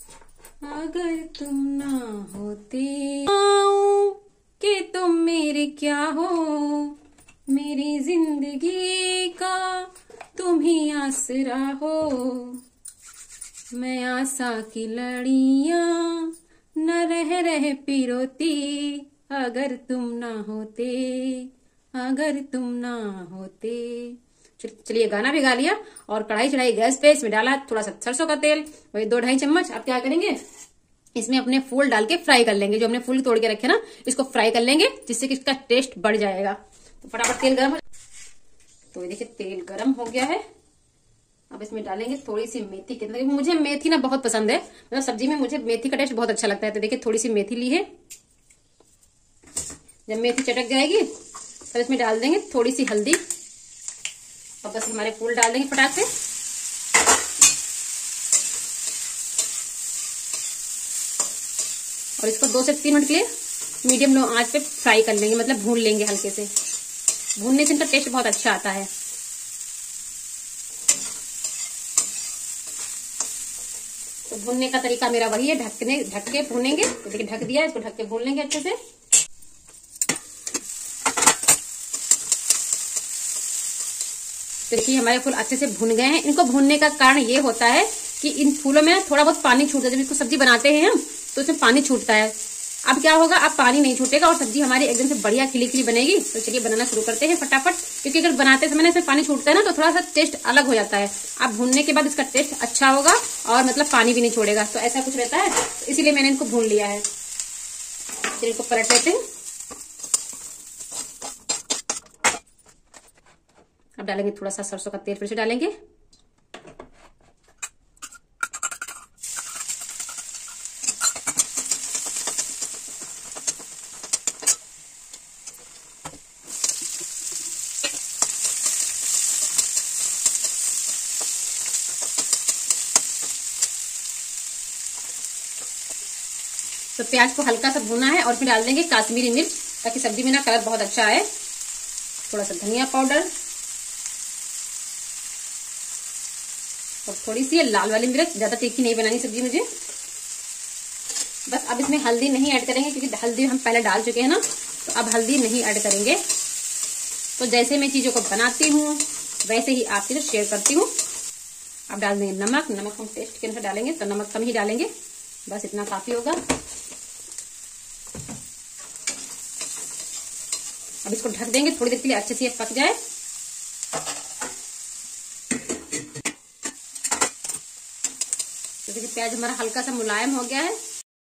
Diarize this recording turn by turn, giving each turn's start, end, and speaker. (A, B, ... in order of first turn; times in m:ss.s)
0:00.6-0:07.0 A
0:07.5-0:12.6 A
0:13.7-0:30.4 A
0:31.2-0:37.8 A
0:38.9-0:40.4 A
0:41.5-0:47.8 A
0:50.1-0:51.0 A
0:51.7-0:53.2 A
0:54.6-0:56.1 A
1:02.2-1:03.2 A
1:03.8-1:06.5 A
1:07.4-1:08.9 A
1:14.3-1:18.8 A
1:24.7-1:32.3 A
1:32.8-1:47.0 A
1:48.4-1:49.2 A
1:54.0-1:55.7 A
2:17.0-2:21.2 A
2:22.3-2:23.3 A
2:27.1-2:29.6 A
2:31.5-2:36.2 A
2:37.4-2:40.9 A
2:41.9-2:44.9 A
2:45.5-2:46.4 A
2:51.0-2:53.0 A
2:58.9-3:00.8 A